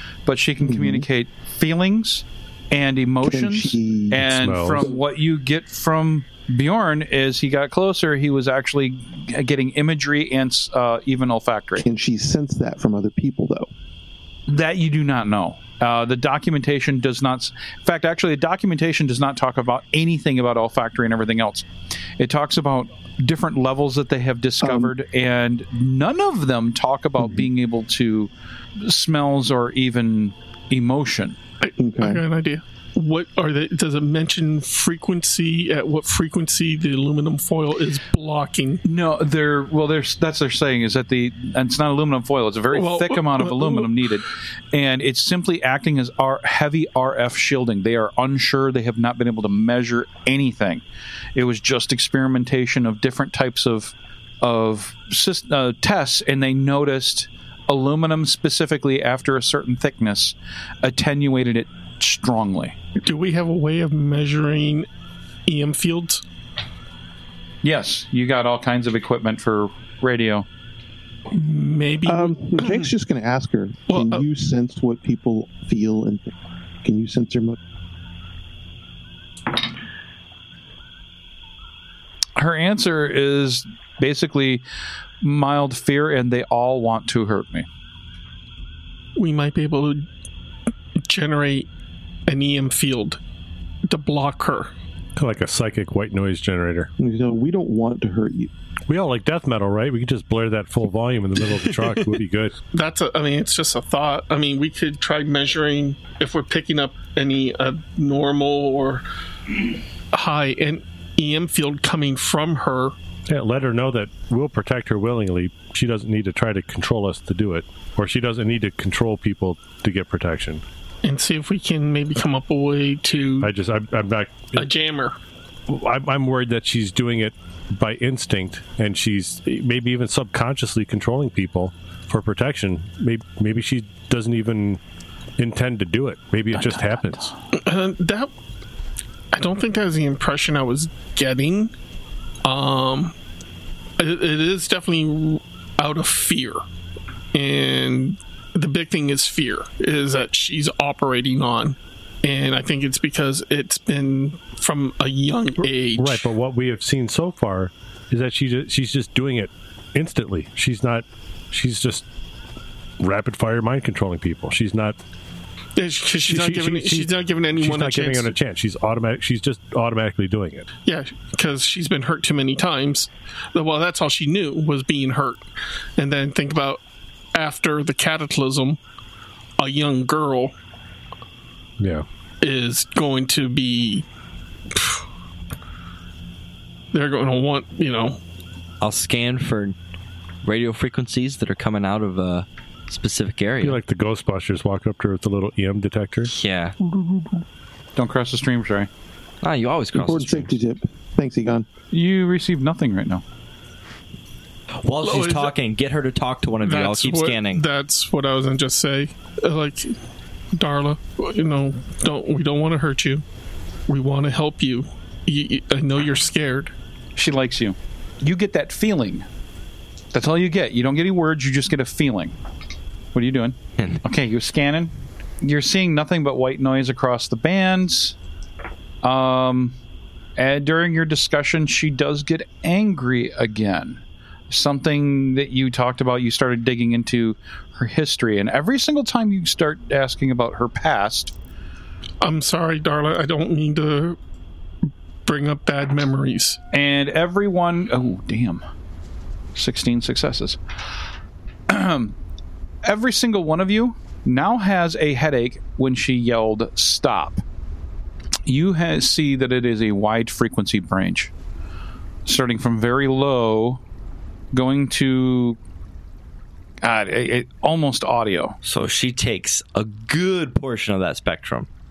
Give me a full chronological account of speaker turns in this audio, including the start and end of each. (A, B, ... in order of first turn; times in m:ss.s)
0:00.2-0:11.8 A
0:00.6-0:01.1 B
0:03.2-0:05.0 B
0:04.2-0:04.9 C
0:11.8-0:13.7 B
0:14.5-0:21.7 A
0:22.2-0:31.4 A
0:24.6-0:24.9 B
0:31.6-0:38.8 D
0:31.8-0:32.2 B
0:38.8-0:50.8 A
0:42.7-0:43.9 D
0:51.3-1:02.7 A
1:03.0-1:04.9 D
1:05.4-1:06.2 D
1:07.6-1:10.4 A
1:11.3-1:12.9 D
1:12.1-1:16.3 B
1:13.9-1:14.2 D
1:16.8-1:17.6 B
1:22.4-1:24.6 A
1:25.2-1:27.7 A
1:29.2-1:30.0 D
1:31.0-1:31.7 D
1:32.3-1:33.2 D
1:33.9-1:34.7 D
1:35.2-1:36.9 C
1:37.0-1:38.5 B
1:38.9-1:42.6 C
1:42.7-1:49.0 D
1:50.1-1:53.0 D
1:53.3-2:00.6 C
2:01.0-2:03.5 D
2:03.4-2:04.7 C
2:04.6-2:05.2 D
2:05.7-2:14.8 C
2:15.4-2:17.3 C
2:17.5-2:18.3 D
2:19.3-2:21.7 D
2:22.4-2:23.1 D
2:24.0-2:26.6 D
2:27.3-2:36.3 D
2:36.0-2:42.0 C
2:43.0-2:45.0 C
2:45.8-2:48.4 D
2:46.2-2:50.7 C
2:50.8-2:56.8 D
2:57.3-2:58.8 D
2:59.6-3:00.5 D
3:01.8-3:02.0 C
3:02.4-3:04.0 D
3:04.7-3:05.0 D
3:06.9-3:08.2 D
3:08.8-3:09.7 E
3:10.4-3:13.8 E
3:13.6-3:16.3 C
3:16.3-3:16.7 E
3:18.0-3:18.9 A
3:19.4-3:20.5 E
3:19.9-3:21.6 B
3:21.9-3:23.2 A
3:24.8-3:27.6 E
3:25.0-3:25.5 D
3:26.6-3:29.9 D
3:30.5-3:33.2 D
3:33.9-3:36.7 D
3:37.2-3:39.2 A
3:40.1-3:42.3 A
3:43.1-3:48.2 A
3:49.0-3:49.8 A
3:50.4-4:01.3 A
4:02.2-4:04.2 D
4:05.2-4:06.6 D
4:06.7-4:08.6 A
4:09.5-4:10.6 A
4:11.7-4:12.2 A
4:12.8-4:17.4 A
4:18.4-4:21.3 A
4:22.2-4:23.8 A
4:24.5-4:25.6 A
4:26.8-4:28.6 A
4:28.6-4:31.7 E